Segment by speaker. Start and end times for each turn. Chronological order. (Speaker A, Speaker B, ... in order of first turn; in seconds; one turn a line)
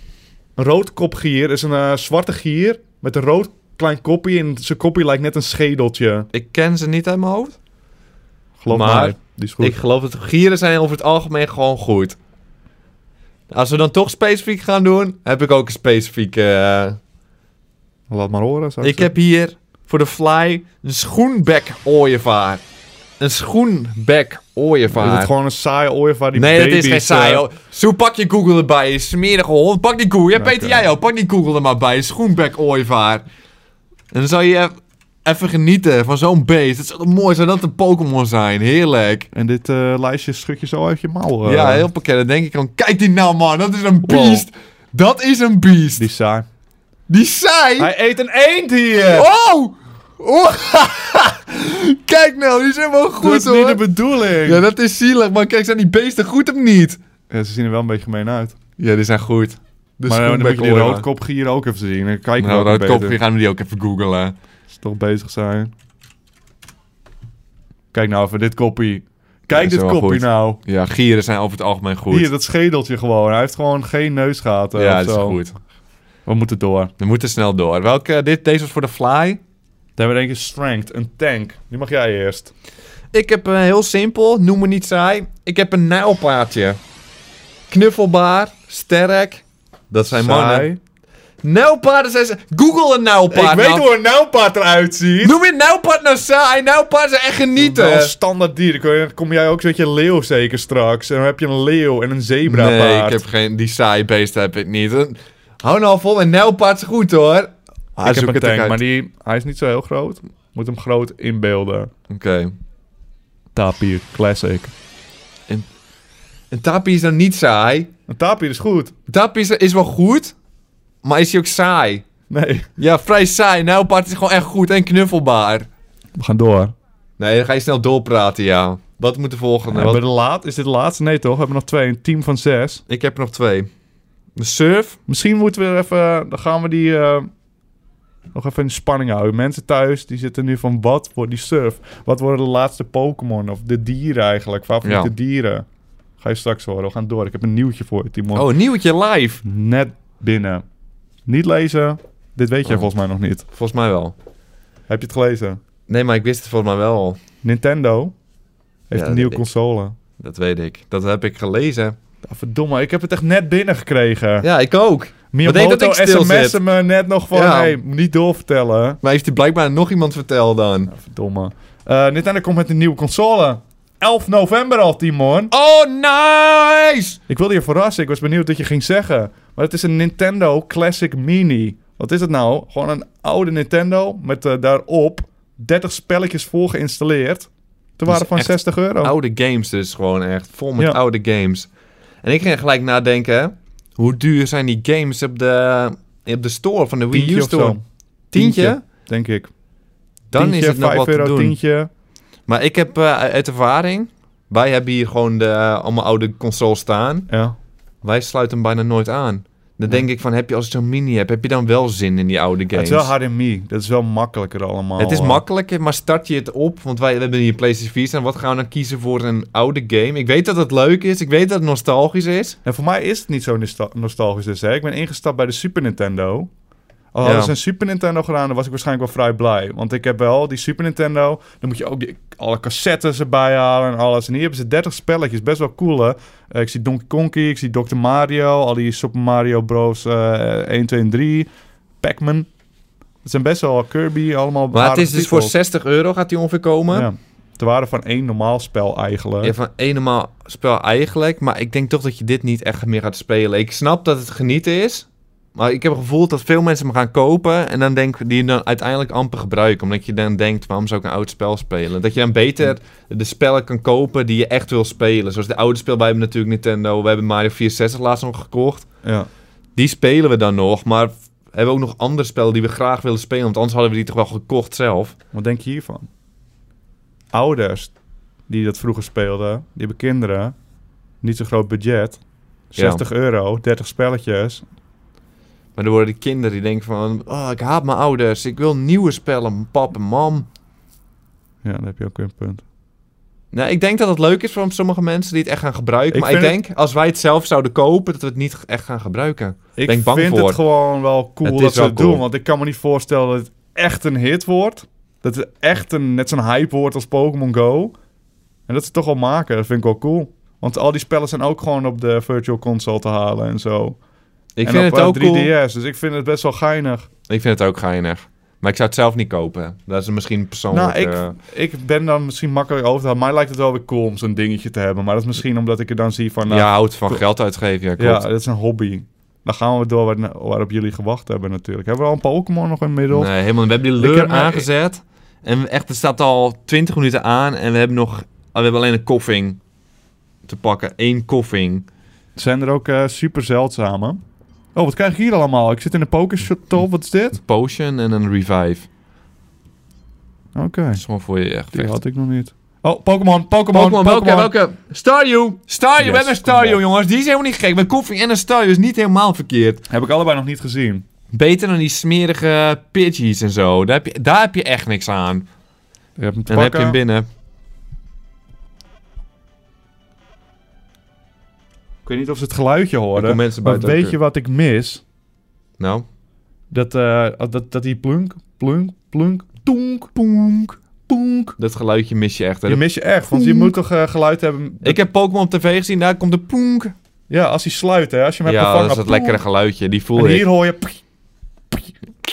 Speaker A: 0.6-6.3
Speaker B: 6.3-7.6
Speaker A: 8.6-9.8
Speaker B: 8.7-12.2
Speaker B: 13.5-17.0
Speaker A: 18.1-19.1
Speaker B: 18.8-22.6
Speaker B: 23.2-25.3
Speaker A: 24.9-27.4
Speaker B: 26.3-33.2
Speaker A: 30.4-30.9
Speaker B: 34.1-34.7
Speaker B: 35.2-39.3
Speaker A: 39.3-41.9
Speaker B: 41.4-46.1
Speaker A: 44.0-44.5
Speaker A: 46.0-46.5
Speaker B: 47.1-47.9
Speaker A: 47.8-49.3
Speaker B: 49.1-53.8
Speaker A: 53.2-54.6
Speaker B: 54.4-57.0
Speaker A: 57.3-58.5
Speaker B: 58.8-61.0
Speaker A: 60.1-63.2
Speaker B: 62.4-64.3
Speaker A: 64.7-65.7
Speaker A: 67.9-70.6
Speaker B: 69.5-72.3
Speaker A: 72.1-75.4
Speaker B: 74.7-75.6
Speaker A: 76.2-76.9
Speaker B: 77.0-79.4
Speaker A: 80.0-82.5
Speaker B: 83.1-86.8
Speaker B: 87.7-90.7
Speaker A: 90.1-90.8
Speaker B: 91.4-93.9
Speaker A: 93.3-95.4
Speaker B: 95.2-98.1
Speaker A: 97.5-103.2
Speaker B: 102.5-108.8
Speaker A: 108.0-111.9
Speaker B: 112.1-112.5
Speaker A: 113.5-114.7
Speaker B: 116.5-117.9
Speaker A: 118.1-118.9
Speaker B: 119.1-120.3
Speaker B: 121.0-122.0
Speaker A: 122.3-122.7
Speaker B: 122.8-125.7
Speaker A: 126.2-126.7
Speaker B: 127.2-130.0
Speaker A: 129.7-132.8
Speaker B: 132.9-133.7
Speaker B: 134.4-135.0
Speaker A: 135.1-137.3
Speaker A: 138.3-145.7
Speaker B: 144.8-145.1
Speaker A: 146.2-148.4
Speaker B: 148.3-149.4
Speaker A: 149.4-150.6
Speaker A: 151.2-153.4
Speaker B: 153.5-154.1
Speaker A: 154.9-155.6
Speaker B: 155.9-157.2
Speaker A: 157.4-158.1
Speaker A: 158.9-159.9
Speaker B: 158.9-159.4
Speaker B: 160.2-162.0
Speaker A: 162.2-164.5
Speaker B: 164.4-166.6
Speaker A: 165.3-169.0
Speaker B: 167.3-167.8
Speaker B: 169.0-170.9
Speaker A: 170.9-175.5
Speaker B: 175.5-177.2
Speaker A: 177.3-189.1
Speaker B: 188.1-191.7
Speaker B: 192.2-197.8
Speaker A: 197.1-197.8
Speaker B: 198.3-198.8
Speaker A: 198.3-199.5
Speaker B: 200.3-201.6
Speaker A: 200.3-201.9
Speaker B: 202.5-207.3
Speaker A: 207.3-207.6
Speaker B: 208.0-213.1
Speaker A: 212.7-215.4
Speaker B: 215.0-222.6
Speaker A: 222.6-226.5
Speaker A: 227.1-241.5
Speaker B: 227.2-227.5
Speaker A: 242.0-242.5
Speaker A: 243.2-245.5
Speaker B: 244.7-247.1
Speaker A: 246.9-249.5
Speaker B: 249.4-268.9
Speaker B: 269.8-275.1
Speaker A: 275.3-276.1
Speaker A: 277.3-277.9
Speaker A: 278.5-280.6
Speaker A: 281.2-282.2
Speaker A: 282.7-284.6
Speaker B: 282.8-283.0
Speaker B: 285.8-290.5
Speaker A: 291.6-292.6
Speaker B: 293.5-300.6
Speaker A: 296.1-296.6
Speaker A: 299.8-307.9
Speaker B: 301.4-302.2
Speaker A: 308.7-314.0
Speaker B: 314.6-315.5
Speaker A: 314.6-317.1
Speaker B: 317.3-321.4
Speaker A: 320.7-327.2
Speaker B: 326.5-328.2
Speaker A: 328.0-333.3
Speaker B: 333.1-339.6
Speaker A: 334.0-334.7
Speaker B: 340.4-341.9
Speaker A: 342.4-344.2
Speaker A: 344.7-347.4
Speaker B: 347.3-348.9
Speaker A: 350.5-351.0
Speaker B: 350.9-352.0
Speaker A: 351.7-354.5
Speaker B: 353.7-359.9
Speaker A: 356.0-356.8
Speaker A: 359.9-361.0
Speaker B: 361.3-365.5
Speaker A: 366.2-367.0
Speaker B: 366.5-367.3
Speaker A: 372.0-375.0
Speaker B: 373.1-374.1
Speaker B: 375.8-376.1
Speaker A: 376.7-381.6
Speaker B: 381.6-383.7
Speaker A: 382.6-385.0
Speaker B: 384.8-386.9
Speaker A: 387.3-389.4
Speaker B: 388.4-390.4
Speaker A: 390.1-391.0